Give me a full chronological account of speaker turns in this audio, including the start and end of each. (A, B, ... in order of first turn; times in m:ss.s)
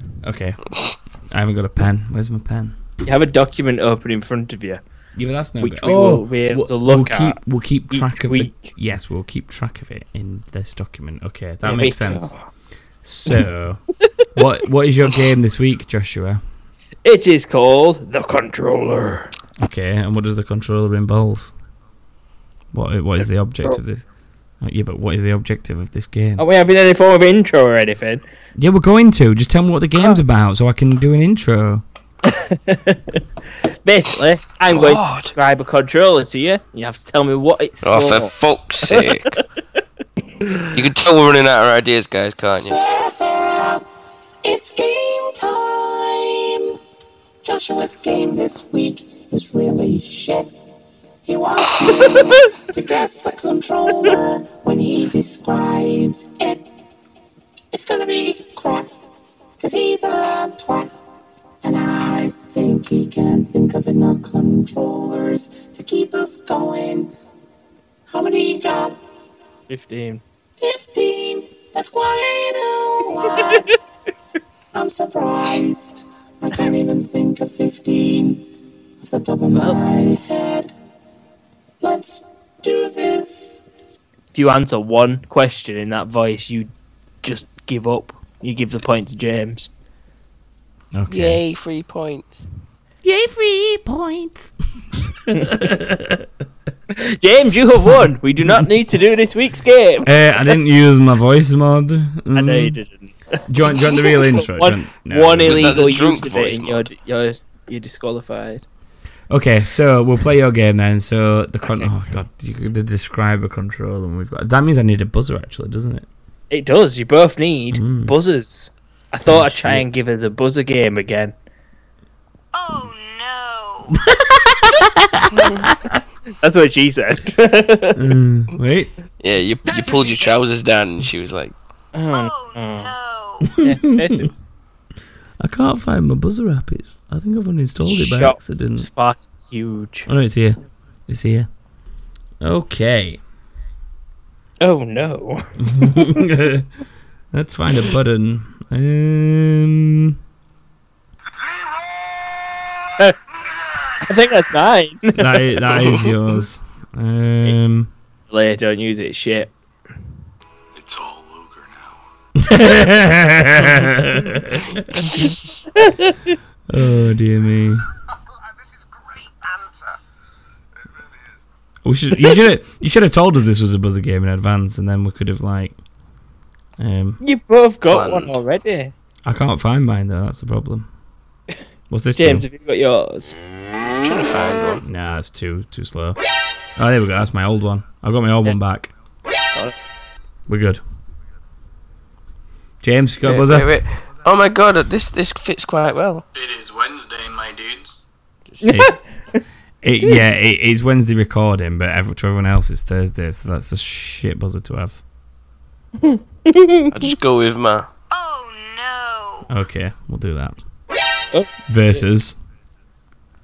0:00.2-0:00.7 A
0:01.3-0:02.8 A
0:03.0-0:04.8 B
0:05.2-0:12.3 A
0:05.6-0:07.4 B
0:07.9-0:08.7 B
0:11.6-0:12.4 B
0:13.0-0:13.8 A
0:14.3-0:16.4 A
0:17.0-0:19.3 B
0:19.6-0:21.5 A
0:22.7-0:24.0 A
0:24.6-0:26.4 A
0:26.4-0:28.2 B
0:28.6-0:31.8 A
0:32.2-0:33.2 B
0:33.8-0:38.3 B
0:34.7-0:35.3 C
0:37.8-0:39.4 C
0:38.9-0:39.4 B
0:40.7-0:42.8 C
0:42.7-0:43.8 D
0:44.4-0:46.8 D
0:47.4-0:50.5 D
0:51.2-0:56.6 D
0:57.7-0:58.9 D
0:59.6-1:00.9 D
1:01.6-1:07.1 D
1:08.1-1:09.0 D
1:09.7-1:10.2 B
1:10.6-1:13.7 D
1:14.7-1:18.5 D
1:19.0-1:20.7 D
1:19.5-1:19.8 B
1:21.8-1:23.6 D
1:24.3-1:26.7 B
1:27.2-1:29.7 B
1:30.9-1:31.4 A
1:31.1-1:32.4 C
1:33.0-1:34.5 A
1:35.1-1:36.3 A
1:35.3-1:35.6 B
1:36.9-1:40.5 B
1:40.0-1:42.8 A
1:42.3-1:48.6 B
1:43.5-1:45.8 A
1:45.4-1:46.9 C
1:49.3-1:56.1 A
1:56.5-2:01.3 B
1:57.7-1:58.1 A
1:59.3-1:59.8 A
2:02.5-2:04.0 E
2:03.9-2:06.0 A
2:05.3-2:05.6 C
2:06.4-2:08.1 B
2:07.9-2:08.9 A
2:09.2-2:11.5 C
2:11.9-2:13.0 B
2:12.1-2:13.4 E
2:13.4-2:14.3 A
2:13.5-2:14.3 B
2:15.4-2:18.9 A
2:17.8-2:20.1 B
2:20.1-2:21.5 A
2:22.4-2:23.2 A
2:24.6-2:26.2 B
2:25.6-2:26.7 A
2:27.3-2:30.2 A
2:34.0-2:36.0 B
2:35.1-2:37.9 A
2:38.3-2:39.5 B
2:40.8-2:42.0 F
2:42.4-2:45.3 A
2:45.7-2:46.3 B
2:46.7-2:47.8 A
2:51.8-2:55.8 A
2:56.8-2:57.2 A
2:57.2-2:58.9 B
2:57.9-2:58.3 C
2:59.2-3:00.9 A
3:01.9-3:02.5 A
3:02.2-3:03.4 B
3:03.9-3:04.8 C
3:04.8-3:06.2 A
3:06.8-3:08.9 A
3:10.5-3:10.8 A
3:12.8-3:13.8 A
3:13.2-3:16.2 C
3:16.4-3:17.9 F
3:18.6-3:19.4 B
3:18.6-3:19.0 A
3:19.8-3:25.0 A
3:26.0-3:26.9 B
3:26.9-3:27.9 C
3:28.1-3:29.4 E
3:29.5-3:30.6 A
3:31.3-3:32.0 B
3:31.7-3:32.4 A